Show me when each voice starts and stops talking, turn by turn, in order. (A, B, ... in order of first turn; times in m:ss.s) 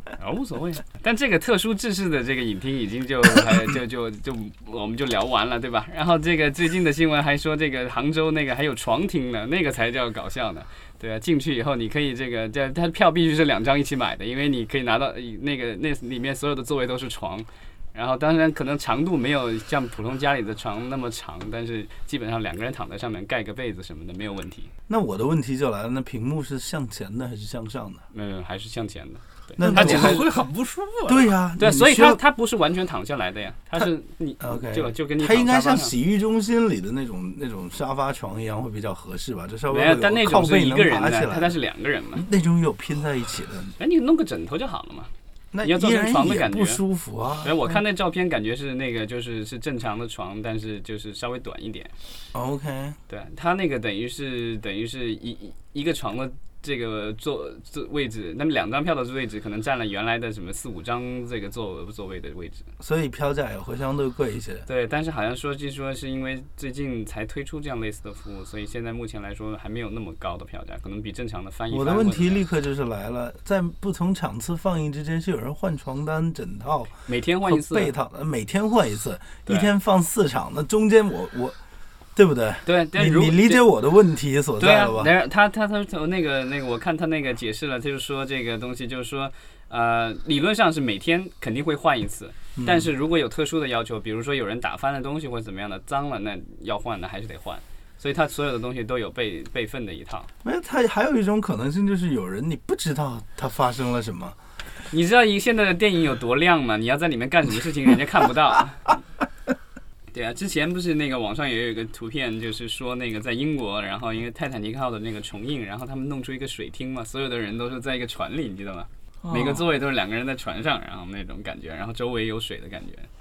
0:00.2-0:24.7 A
0:24.9-0:28.0 B
0:28.1-0:30.2 A
0:29.6-0:30.2 B
0:29.6-0:31.3 C
0:31.1-0:32.2 B
0:31.6-0:35.9 A
0:33.7-0:41.6 B
0:39.7-0:42.2 A
0:42.1-0:43.8 B
0:43.8-0:45.1 A
0:45.5-0:47.6 B
0:45.6-0:46.8 A
0:47.4-0:51.9 A
0:52.3-0:53.0 B
0:53.1-1:02.7 A
1:02.8-1:04.6 B
1:04.6-1:12.4 A
1:11.7-1:21.6 B
1:17.0-1:17.9 A
1:22.1-1:25.1 B
1:22.6-1:23.6 A
1:24.6-1:40.3 A
1:32.6-1:32.9 B
1:40.4-1:44.4 B
1:44.9-1:49.0 A
1:50.1-2:03.1 A
1:59.2-1:59.7 C